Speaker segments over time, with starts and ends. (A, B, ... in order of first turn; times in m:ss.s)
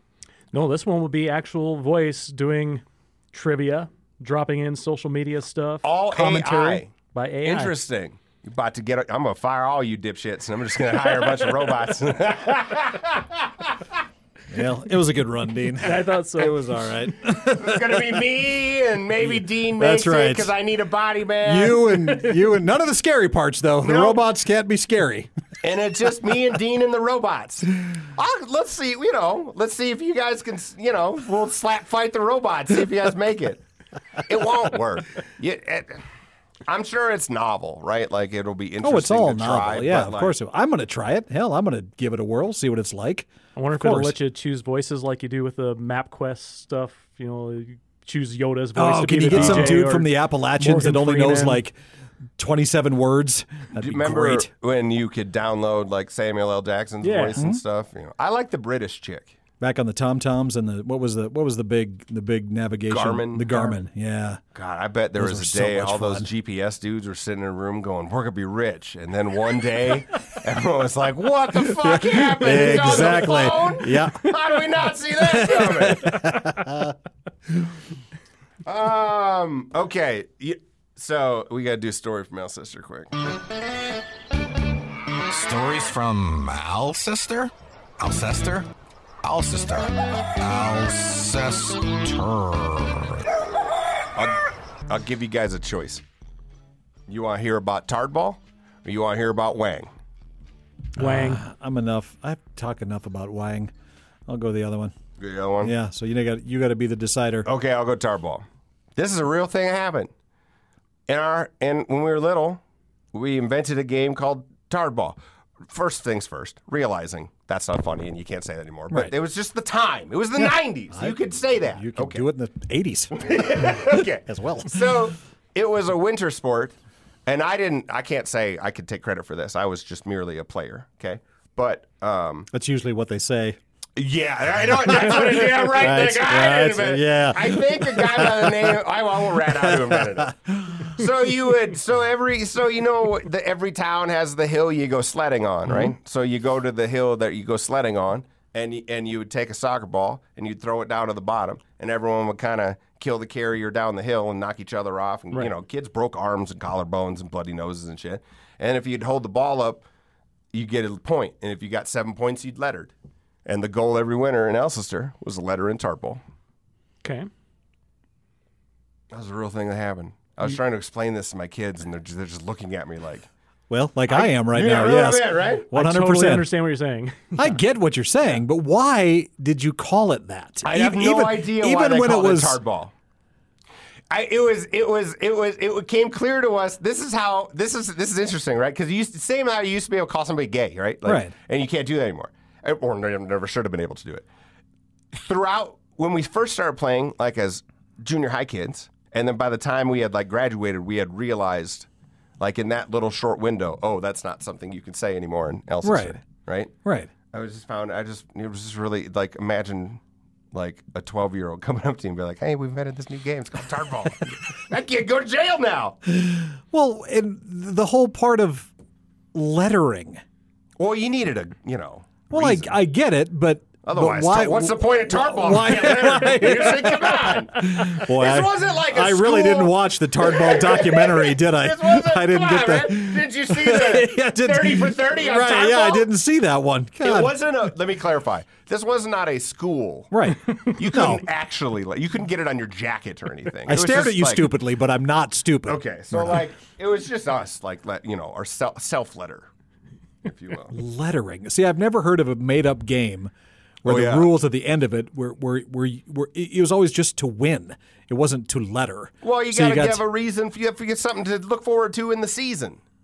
0:00.5-0:07.7 A
0:05.8-0:06.9 B
0:07.4-0:13.7 B
0:14.5-0:18.0 C
0:15.8-0:16.8 A
0:17.4-0:22.3 B
0:19.4-0:20.5 C
0:21.4-0:25.3 C
0:23.8-0:24.2 B
0:25.6-0:33.6 B
0:34.2-0:36.0 B
0:36.7-0:40.4 B
0:38.8-0:44.2 C
0:43.6-0:51.6 A
0:48.8-0:51.8 C
0:49.3-0:49.8 B
0:52.4-0:54.5 C
0:53.7-0:59.4 B
0:57.0-0:57.4 A
0:59.6-1:04.4 C
1:02.9-1:03.8 B
1:04.5-1:16.2 B
1:05.2-1:06.3 C
1:11.6-1:14.6 C
1:15.2-1:17.0 C
1:18.6-1:23.1 B
1:25.3-1:28.7 D
1:29.2-1:33.3 D
1:34.2-1:36.0 B
1:37.1-1:39.9 B
1:41.0-1:41.4 A
1:41.0-1:43.7 C
1:44.3-1:44.9 C
1:45.2-1:45.7 B
1:45.6-1:47.5 C
1:47.4-1:48.4 B
1:49.0-1:50.1 B
1:51.1-1:52.6 B
1:53.1-1:55.2 B
1:55.7-2:02.2 B
2:00.4-2:01.2 C
2:01.7-2:04.7 C
2:03.1-2:06.7 B
2:07.2-2:12.5 B
2:12.5-2:13.6 C
2:14.0-2:39.8 B
2:14.8-2:18.8 C
2:19.4-2:21.0 C
2:40.5-2:42.9 B
2:43.4-2:46.2 B
2:47.0-2:47.3 A
2:49.1-2:53.3 B
2:53.7-2:56.5 C
2:54.1-2:55.7 B
2:55.7-2:57.6 A
2:57.4-3:02.6 C
3:00.6-3:02.9 B
3:04.1-3:14.2 B
3:11.0-3:11.3 C
3:15.1-3:21.9 B
3:22.4-3:26.7 B
3:25.8-3:26.2 C
3:26.8-3:27.1 C
3:27.3-3:30.0 B
3:30.5-3:36.0 B
3:36.1-3:38.7 C
3:39.3-3:40.2 C
3:40.8-3:42.7 B
3:42.3-3:57.3 C
3:43.8-3:56.1 B
3:57.0-4:00.1 B
4:00.1-4:01.2 C
4:00.7-4:04.5 B
4:03.6-4:06.4 C
4:05.7-4:09.5 B
4:10.2-4:10.7 B
4:10.7-4:13.3 C
4:13.8-4:20.0 C
4:13.8-4:14.3 B
4:19.2-4:22.8 B